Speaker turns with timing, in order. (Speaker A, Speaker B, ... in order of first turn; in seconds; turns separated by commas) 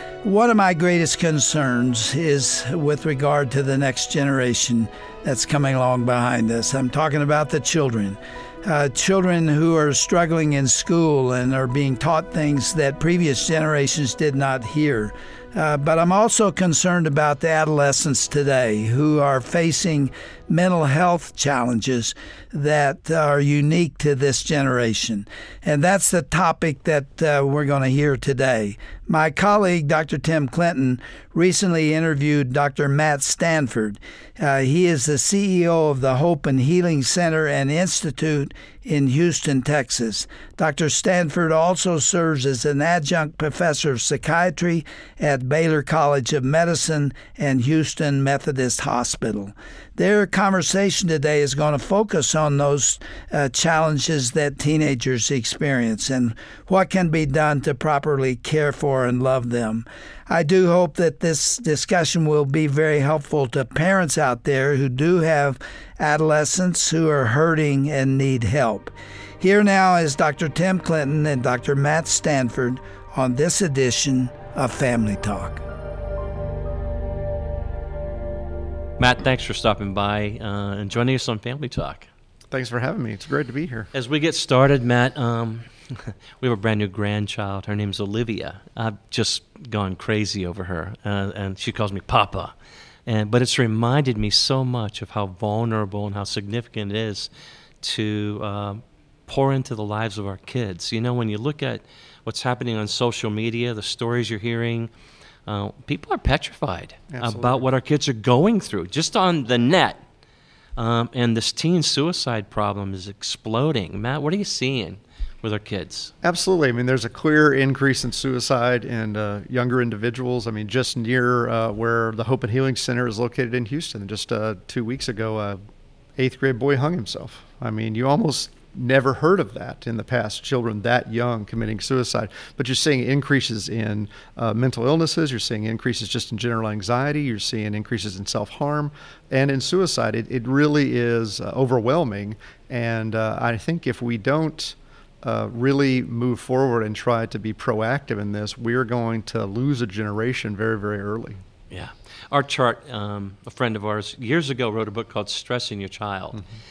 Speaker A: 0.2-75.6, Speaker B: 79.0-82.1, Speaker C: 82.5-83.9, Speaker B: 83.9-92.5, Speaker B: 93.1-97.3, Speaker B: 97.8-104.9, Speaker B: 105.5-110.0, Speaker C: 107.1-107.6, Speaker B: 110.8-116.1, Speaker C: 116.2-125.6, Speaker C: 126.2-151.4, Speaker B: 151.7-156.4